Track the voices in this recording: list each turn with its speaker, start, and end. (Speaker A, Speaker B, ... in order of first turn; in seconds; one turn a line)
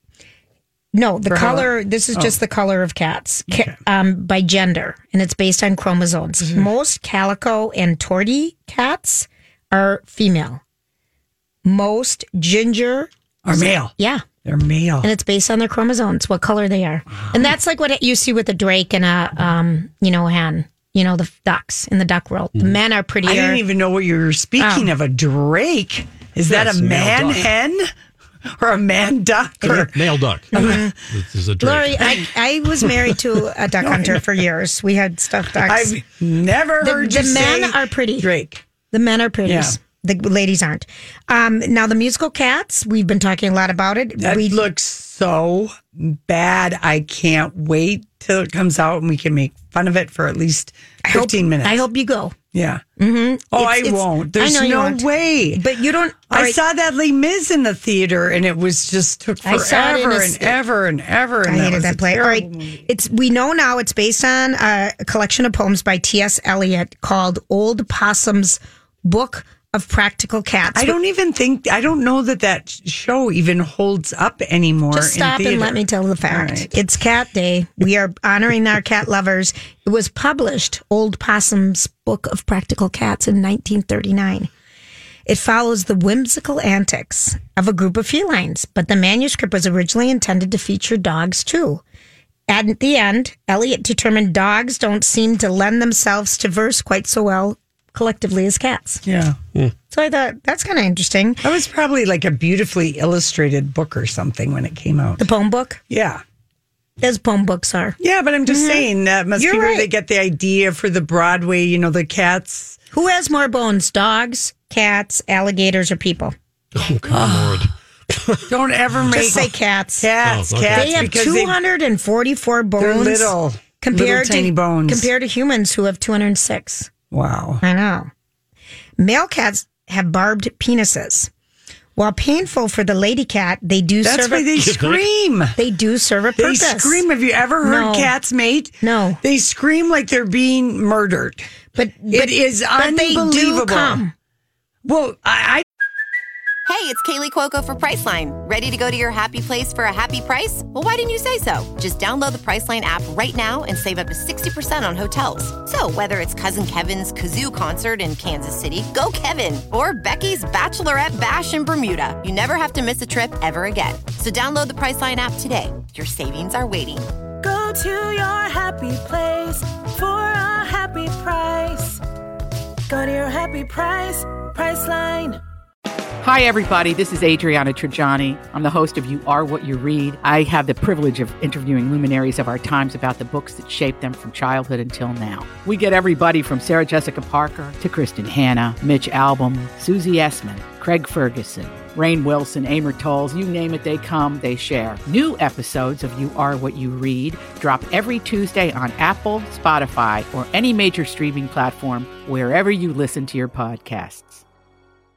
Speaker A: 0.9-10.6
Speaker B: 1.3-2.3
Speaker B: 3.5-3.8
Speaker A: 11.6-14.2
Speaker B: 13.4-15.1
Speaker A: 15.0-23.6
Speaker B: 23.2-27.9
Speaker A: 24.6-24.9
Speaker C: 26.5-27.5
Speaker B: 28.5-29.9
Speaker C: 29.6-32.2
Speaker A: 30.5-30.9
Speaker B: 30.5-30.9
Speaker A: 31.6-35.9
Speaker B: 33.8-34.2
Speaker B: 35.6-38.6
Speaker A: 36.8-38.3
Speaker A: 38.9-44.6
Speaker B: 39.4-39.8
Speaker B: 44.2-51.8
Speaker A: 51.0-52.3
Speaker B: 52.5-52.8
Speaker A: 53.0-56.6
Speaker B: 53.5-55.6
Speaker B: 56.3-62.9
Speaker A: 59.4-60.6
Speaker A: 61.4-71.0
Speaker B: 70.7-76.7
Speaker A: 74.9-84.5
Speaker A: 85.2-91.8
Speaker A: 92.5-99.0
Speaker B: 99.0-99.4
Speaker A: 99.9-101.4
Speaker B: 101.4-105.3
Speaker A: 105.2-105.8
Speaker B: 105.9-106.2
Speaker A: 107.0-109.9
Speaker B: 108.0-112.8
Speaker A: 112.9-116.3
Speaker C: 116.7-118.5
Speaker B: 117.1-117.7
Speaker B: 118.5-121.6
Speaker A: 119.1-120.1
Speaker C: 120.2-121.2
Speaker A: 120.7-126.9
Speaker B: 122.8-125.1
Speaker B: 127.1-127.6
Speaker A: 127.6-128.1
Speaker A: 129.0-131.3
Speaker A: 131.9-134.7
Speaker B: 134.0-135.6
Speaker C: 134.6-135.1
Speaker A: 135.6-137.0
Speaker B: 136.3-141.5
Speaker A: 137.6-138.1
Speaker A: 138.8-139.2
Speaker A: 141.7-144.1
Speaker B: 142.1-144.0
Speaker B: 144.8-145.6
Speaker D: 146.7-167.1
Speaker E: 167.4-172.0
Speaker E: 172.9-175.4
Speaker F: 176.2-204.4